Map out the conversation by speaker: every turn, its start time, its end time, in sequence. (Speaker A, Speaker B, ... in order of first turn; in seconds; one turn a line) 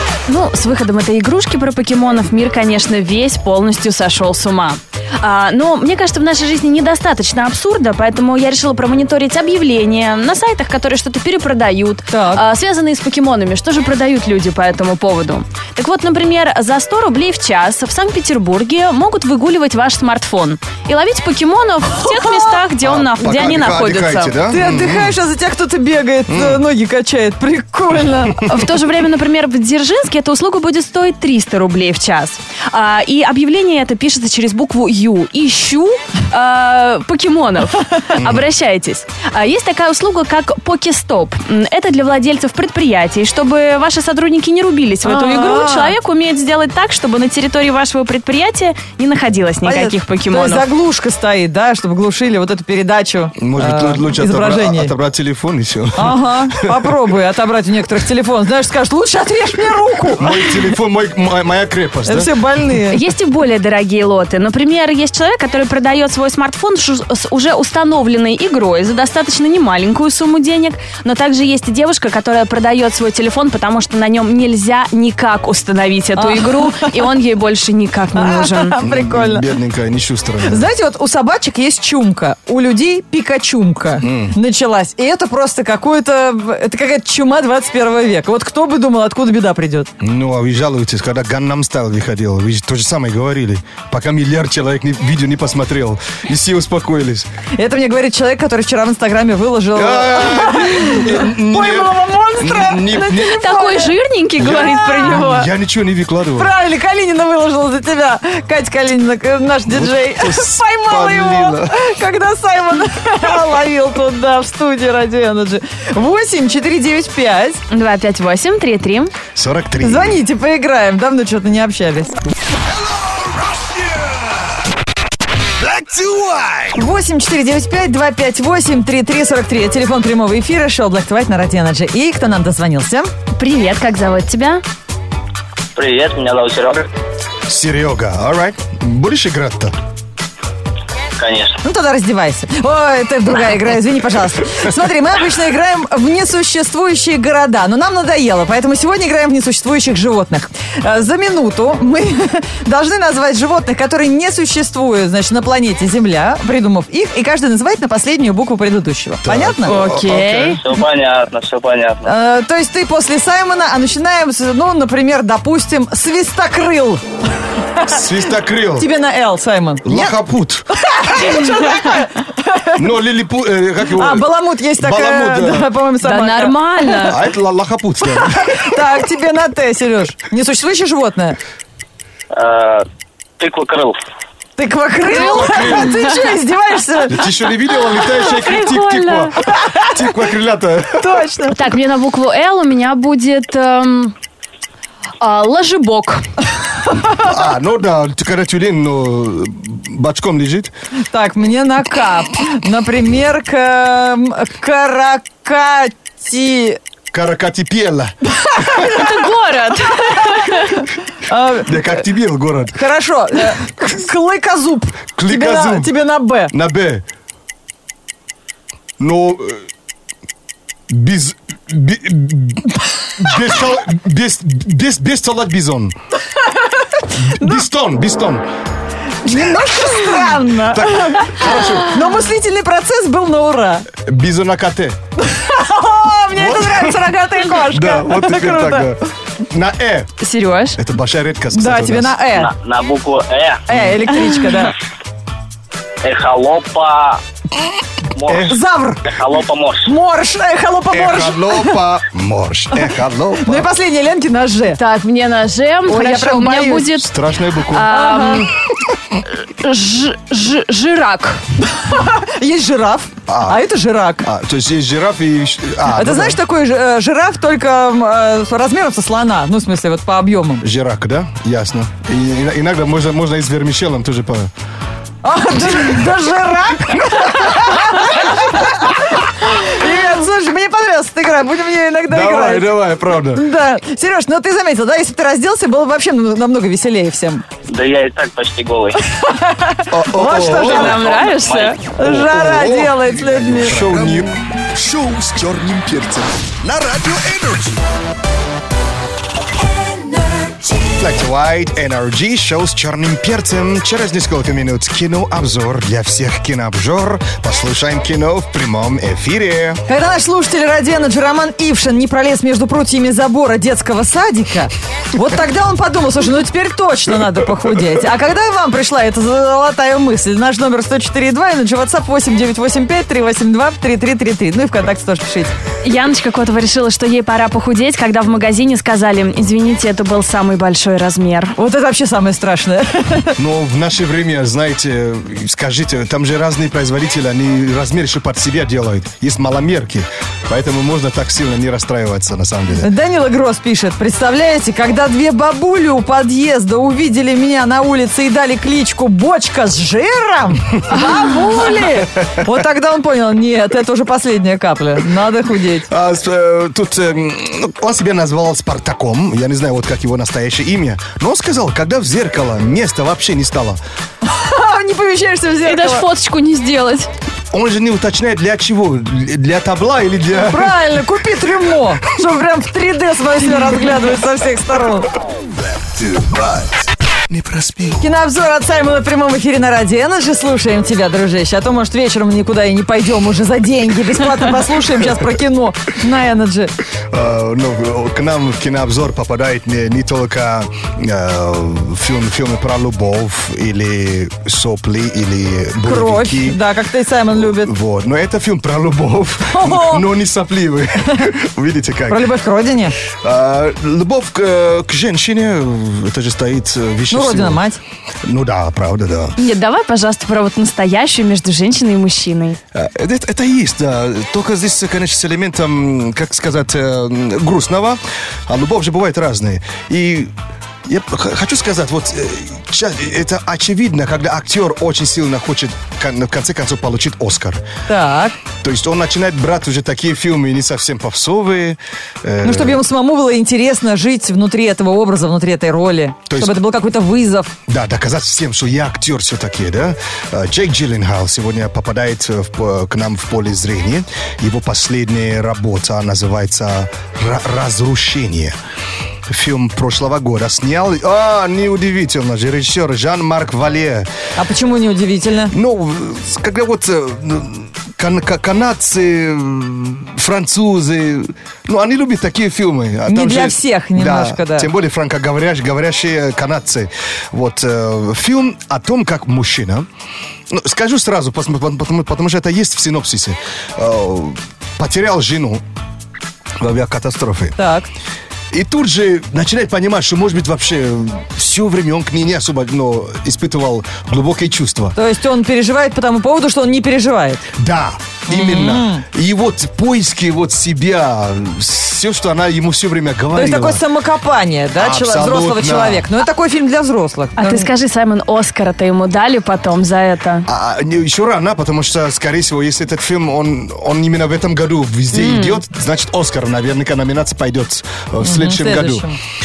Speaker A: 0.3-24.4
Speaker B: 12.1-12.4
Speaker B: 21.9-22.6
Speaker C: 22.8-25.2
Speaker B: 24.4-28.6
Speaker C: 26.3-26.6
Speaker A: 28.4-50.7
Speaker C: 38.2-38.4
Speaker B: 45.0-46.0
Speaker B: 49.6-54.9
Speaker C: 53.4-57.0
Speaker B: 56.0-60.8
Speaker C: 60.2-62.3
Speaker B: 62.0-63.1
Speaker A: 62.9-78.8
Speaker B: 76.1-77.1
Speaker B: 78.1-79.6
Speaker C: 78.8-80.7
Speaker B: 80.4-89.9
Speaker C: 84.0-84.4
Speaker C: 90.0-97.3
Speaker B: 97.5-105.4
Speaker C: 99.7-103.4
Speaker A: 103.4-105.5
Speaker C: 104.4-106.5
Speaker B: 106.3-117.6
Speaker C: 109.7-111.7
Speaker A: 117.7-119.2
Speaker C: 119.3-120.2
Speaker B: 119.8-122.2
Speaker C: 123.5-124.2
Speaker C: 125.6-126.6
Speaker B: 126.7-133.1
Speaker A: 133.4-134.6
Speaker D: 135.8-136.9
Speaker C: 137.5-139.8
Speaker D: 141.1-141.6
Speaker B: 141.6-159.9
Speaker C: 159.2-160.6
Speaker A: 159.6-160.6
Speaker D: 160.5-162.1
Speaker B: 162.0-167.0
Speaker B: 167.7-170.2
Speaker C: 167.9-168.9
Speaker C: 169.8-170.7
Speaker B: 170.7-173.0
Speaker C: 172.8-175.7
Speaker B: 173.8-177.1
Speaker A: 176.0-177.2
Speaker C: 177.1-178.7
Speaker B: 178.0-181.4
Speaker D: 182.3-182.8
Speaker D: 183.4-184.0
Speaker B: 184.6-187.2
Speaker A: 185.1-186.2
Speaker C: 185.1-186.0
Speaker C: 187.1-191.1
Speaker A: 188.0-189.4
Speaker B: 189.4-189.9
Speaker B: 191.0-191.7
Speaker A: 191.5-194.1
Speaker A: 195.2-196.2
Speaker B: 196.9-197.2
Speaker C: 197.2-200.7
Speaker B: 201.1-206.8
Speaker C: 207.1-209.0
Speaker B: 208.3-208.8
Speaker A: 208.7-210.8
Speaker B: 209.9-212.1
Speaker C: 211.6-212.8
Speaker B: 212.7-216.5
Speaker C: 215.2-215.9
Speaker C: 216.5-217.0
Speaker C: 219.0-219.6
Speaker C: 220.9-225.9
Speaker B: 226.3-227.6
Speaker C: 227.2-228.4
Speaker B: 229.2-233.9
Speaker C: 230.7-232.0
Speaker C: 234.0-235.0
Speaker B: 235.2-238.9
Speaker C: 236.3-240.1
Speaker A: 240.2-240.8
Speaker C: 240.8-242.2
Speaker B: 241.5-242.5
Speaker D: 242.3-243.6
Speaker B: 243.7-244.8
Speaker D: 246.0-247.2
Speaker D: 248.1-248.5
Speaker C: 248.3-248.6
Speaker B: 248.3-249.1
Speaker D: 249.0-249.9
Speaker B: 249.8-252.0
Speaker C: 250.9-253.7
Speaker B: 252.7-254.8
Speaker A: 254.8-258.5
Speaker B: 255.9-257.0
Speaker C: 257.0-257.9
Speaker B: 257.9-258.5
Speaker A: 259.2-261.4
Speaker B: 261.6-264.3
Speaker C: 263.3-263.6
Speaker C: 264.2-266.4
Speaker B: 265.9-270.6
Speaker C: 270.6-274.5
Speaker B: 275.2-287.4
Speaker C: 282.1-283.4
Speaker D: 287.7-289.0
Speaker B: 289.1-293.9
Speaker C: 289.9-291.0
Speaker A: 290.4-291.8
Speaker D: 291.0-291.8
Speaker C: 292.0-292.9
Speaker E: 293.1-293.6
Speaker C: 293.5-294.4
Speaker E: 294.8-297.7
Speaker C: 296.0-296.4
Speaker C: 300.8-309.8
Speaker B: 309.9-325.5
Speaker A: 325.8-331.5
Speaker B: 331.5-333.4
Speaker C: 333.4-342.9
Speaker B: 342.8-355.9
Speaker C: 355.9-363.8
Speaker B: 364.2-366.1
Speaker A: 365.6-367.1
Speaker C: 367.5-370.8
Speaker B: 370.3-375.1
Speaker C: 375.8-378.1
Speaker B: 378.0-386.8
Speaker C: 387.1-396.6
Speaker B: 395.8-397.7
Speaker C: 397.3-402.3
Speaker B: 399.5-400.1
Speaker B: 401.0-401.3
Speaker B: 402.1-402.9
Speaker C: 403.1-407.6
Speaker B: 407.1-407.8
Speaker C: 408.2-409.4
Speaker A: 409.4-412.6
Speaker C: 412.7-420.3
Speaker C: 420.9-427.6
Speaker B: 427.9-428.4
Speaker C: 428.6-432.8
Speaker B: 432.4-437.5
Speaker C: 436.3-436.5
Speaker C: 437.7-448.6
Speaker C: 449.3-454.1
Speaker B: 454.3-455.5
Speaker C: 455.5-469.9
Speaker B: 463.1-464.7
Speaker C: 470.5-475.6
Speaker C: 476.6-477.5
Speaker B: 477.6-477.9
Speaker C: 478.5-485.0
Speaker B: 484.9-487.4
Speaker C: 487.6-493.8
Speaker B: 488.3-489.1
Speaker B: 493.3-497.7
Speaker C: 494.8-496.1
Speaker A: 497.4-500.5
Speaker C: 500.5-509.1
Speaker A: 505.1-505.6
Speaker B: 508.2-509.2